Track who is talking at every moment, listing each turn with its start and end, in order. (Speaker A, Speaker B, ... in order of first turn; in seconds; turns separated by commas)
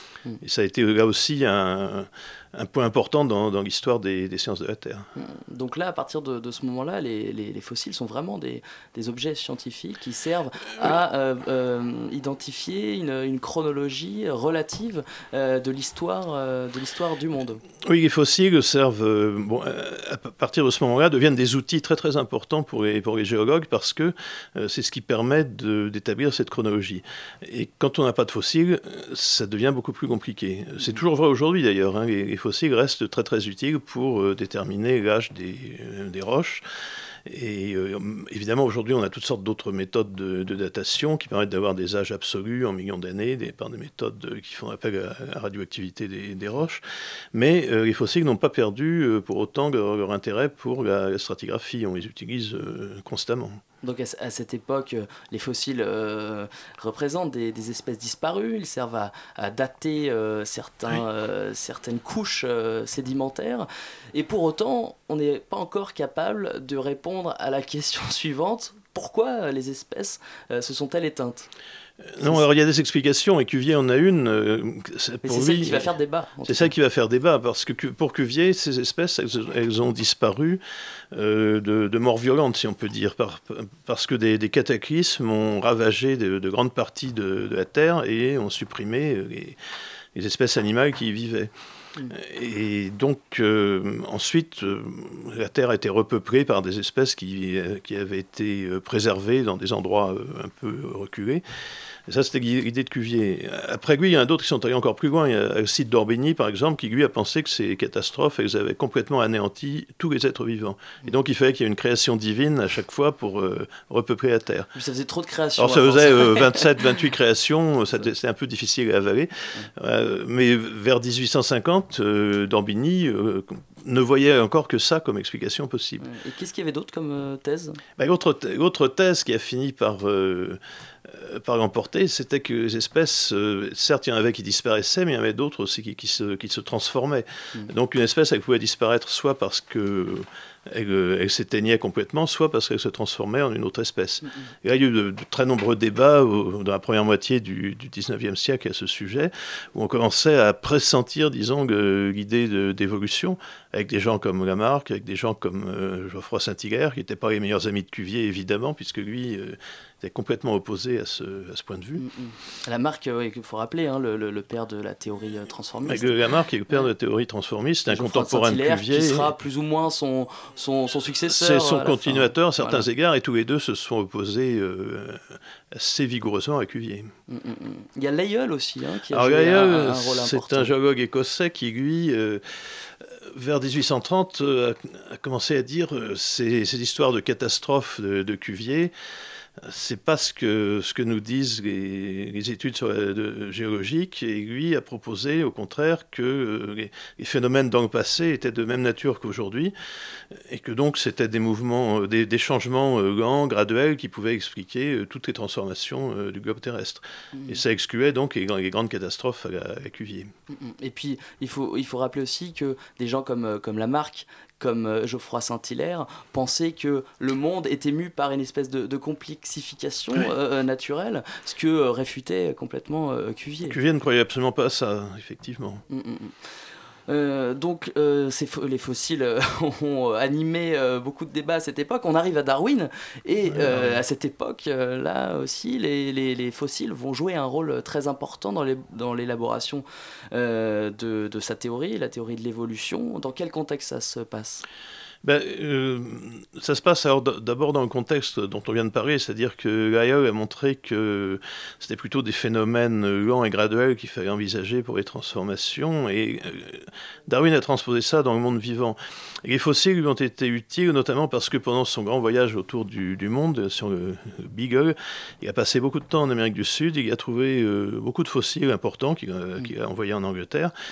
Speaker A: 0.4-5.1, Speaker B: 5.2-17.6, Speaker A: 17.8-36.6, Speaker A: 37.2-46.8, Speaker A: 47.3-53.6, Speaker B: 53.8-71.5, Speaker A: 72.1-75.9, Speaker B: 75.2-76.7, Speaker A: 76.4-80.6, Speaker A: 81.1-89.6, Speaker A: 90.1-91.5, Speaker A: 92.1-101.4, Speaker A: 102.1-114.7, Speaker B: 114.7-116.7, Speaker A: 115.6-126.0, Speaker B: 126.0-127.8, Speaker A: 128.0-162.0, Speaker B: 144.2-144.5, Speaker B: 162.0-166.2, Speaker A: 165.8-169.3, Speaker B: 167.9-172.9, Speaker A: 171.3-177.1, Speaker B: 177.3-180.7, Speaker A: 179.1-188.9, Speaker A: 189.6-199.7, Speaker A: 200.3-210.3, Speaker B: 207.3-207.6, Speaker B: 210.5-223.8, Speaker A: 223.7-225.8, Speaker B: 225.9-226.5, Speaker B: 227.1-244.6, Speaker A: 233.5-234.0, Speaker A: 245.2-270.7